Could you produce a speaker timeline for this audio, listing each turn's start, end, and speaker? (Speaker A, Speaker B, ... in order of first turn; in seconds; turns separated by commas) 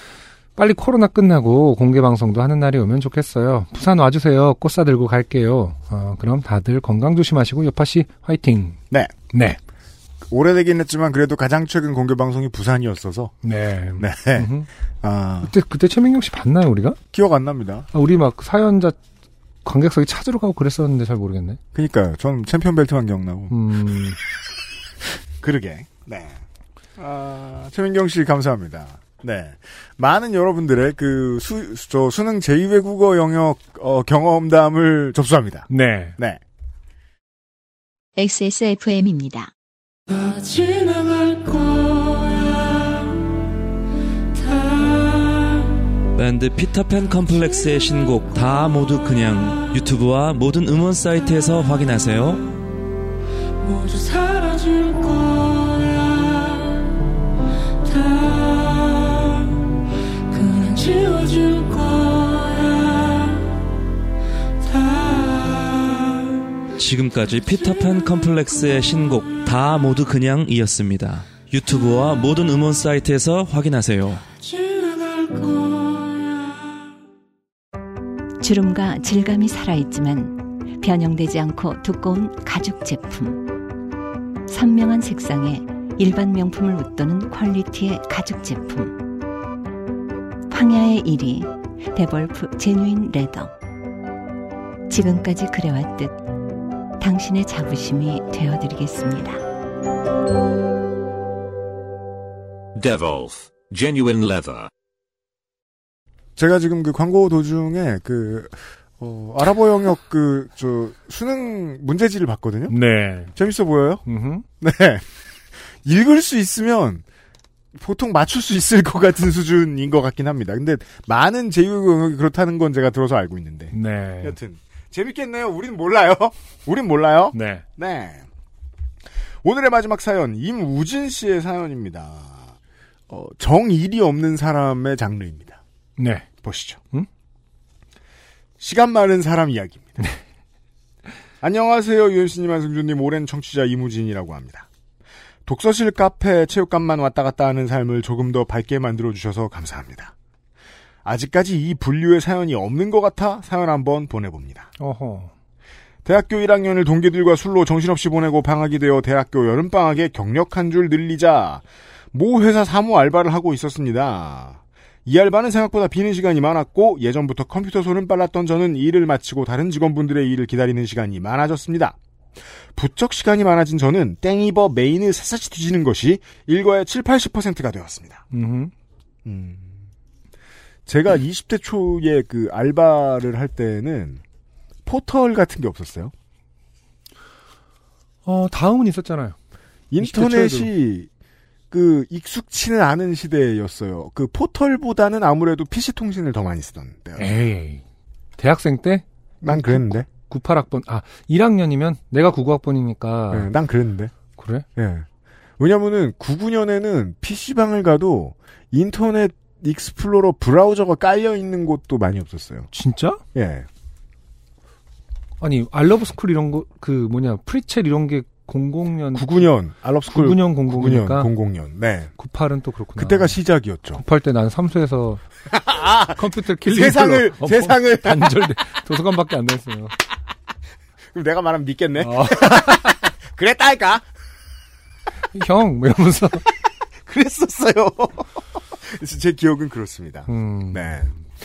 Speaker A: 0.6-8.8, Speaker A: 9.3-9.6, Speaker B: 10.3-13.3, Speaker A: 13.4-14.7, Speaker B: 14.0-14.5, Speaker B: 15.0-15.5, Speaker A: 15.4-17.0, Speaker B: 17.1-17.9, Speaker A: 17.9-19.0, Speaker A: 19.6-21.6, Speaker B: 21.7-23.6, Speaker A: 23.5-24.2, Speaker B: 25.4-26.4, Speaker B: 27.0-36.4, Speaker A: 35.7-36.2, Speaker C: 38.2-39.5, Speaker D: 46.2-52.5, Speaker D: 66.8-74.3, Speaker C: 78.4-83.4, Speaker C: 84.5-89.0, Speaker C: 90.5-93.5, Speaker C: 94.9-96.2, Speaker C: 97.0-99.4, Speaker E: 102.8-104.7, Speaker B: 106.4-112.8, Speaker A: 112.7-113.3, Speaker B: 113.3-114.0, Speaker A: 114.1-114.5, Speaker B: 114.6-115.0, Speaker B: 115.8-117.0, Speaker B: 117.7-128.3, Speaker A: 123.7-124.4, Speaker A: 127.3-127.6, Speaker B: 129.4-132.5, Speaker B: 133.1-135.6, Speaker A: 136.0-136.3, Speaker B: 136.4-136.8, Speaker B: 138.6-140.1, Speaker B: 141.4-144.7, Speaker B: 145.5-150.1, Speaker B: 151.1-154.7, Speaker A: 154.8-155.3, Speaker B: 156.1-172.0, Speaker B: 172.8-178.2, Speaker A: 178.3-178.7, Speaker B: 179.2-179.8, Speaker B: 180.9-184.2, Speaker B: 184.9-186.1, Speaker A: 188.2-189.4, Speaker B: 189.9-191.1, Speaker A: 190.0-190.7, Speaker B: 191.7-197.4, Speaker A: 197.2-197.8, Speaker A: 198.4-203.5, Speaker B: 199.4-200.1, Speaker B: 203.3-204.1, Speaker A: 204.4-204.7, Speaker B: 204.8-205.1, Speaker B: 205.6-212.7, Speaker A: 212.7-213.2, Speaker B: 213.3-213.7, Speaker A: 215.4-219.5, Speaker B: 219.1-222.1, Speaker A: 220.1-221.3, Speaker A: 222.2-223.4, Speaker B: 223.0-224.0, Speaker A: 223.9-225.2, Speaker B: 225.5-228.4, Speaker A: 226.2-229.9, Speaker B: 231.1-234.1, Speaker A: 232.0-233.1, Speaker A: 235.3-236.4, Speaker B: 237.1-241.1, Speaker A: 240.3-240.9